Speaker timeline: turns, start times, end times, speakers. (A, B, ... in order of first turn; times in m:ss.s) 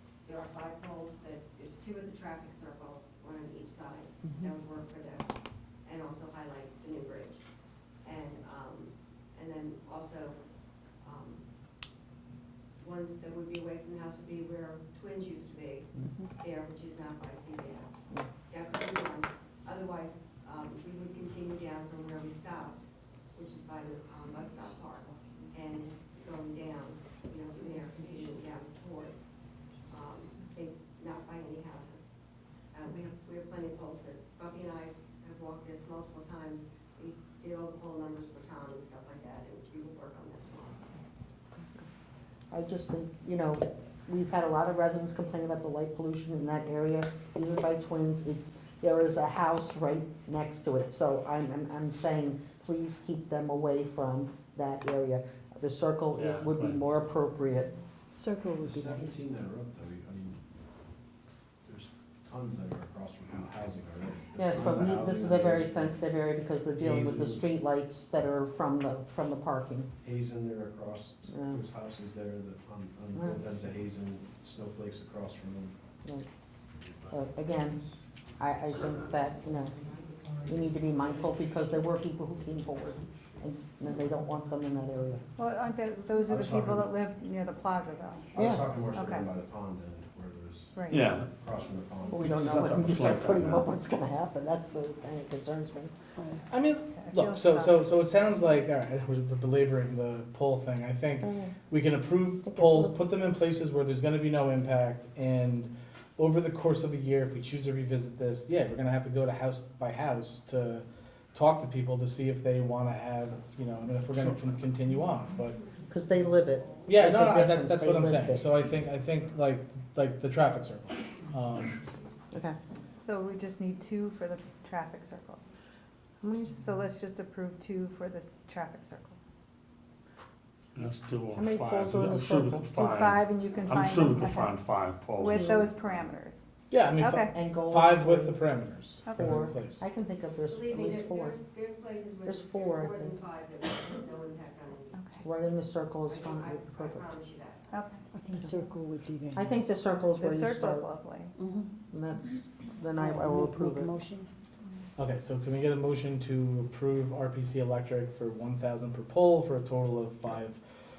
0:00.3-0:05.3 A
0:05.8-0:07.4 A
0:08.0-0:10.4 A
0:11.0-0:11.4 A
0:12.8-0:29.3 A
0:29.9-0:32.1 A
0:32.7-0:40.8 A
0:41.6-0:41.9 B
0:42.5-0:57.7 B
0:56.2-0:56.8 C
0:58.1-0:59.3 D
0:58.6-1:00.4 E
1:01.6-1:06.0 E
1:04.4-1:09.9 B
1:06.8-1:07.5 E
1:10.0-1:15.8 E
1:11.3-1:11.6 B
1:13.2-1:13.4 B
1:17.1-1:17.8 B
1:18.4-1:19.8 B
1:18.9-1:20.0 A
1:20.5-1:25.2 B
1:25.4-1:28.2 F
1:26.0-1:26.7 C
1:26.3-1:26.8 E
1:28.3-1:32.7 E
1:28.4-1:28.7 B
1:30.8-1:31.3 C
1:32.1-1:35.9 B
1:32.2-1:33.6 C
1:36.2-1:36.4 D
1:36.5-1:55.6 G
1:36.9-1:37.7 F
1:41.2-1:41.5 B
1:42.4-1:42.9 B
1:55.9-1:58.6 B
1:56.9-2:01.8 G
2:02.3-2:02.6 B
2:03.0-2:05.4 F
2:06.2-2:06.6 B
2:06.5-2:09.2 F
2:10.8-2:15.7 C
2:11.4-2:12.7 B
2:12.8-2:14.5 F
2:15.2-2:15.7 B
2:15.2-2:16.4 F
2:16.7-2:19.8 G
2:17.0-2:17.3 F
2:17.3-2:18.5 B
2:19.2-2:21.4 B
2:20.5-2:25.0 A
2:22.3-2:23.2 B
2:24.9-2:25.2 F
2:25.2-2:27.1 B
2:26.1-2:27.7 A
2:27.7-2:28.0 F
2:28.1-2:29.8 D
2:29.3-2:30.9 B
2:30.1-2:31.3 F
2:31.4-2:31.7 D
2:31.9-2:33.9 B
2:33.0-2:34.3 D
2:35.0-2:40.6 G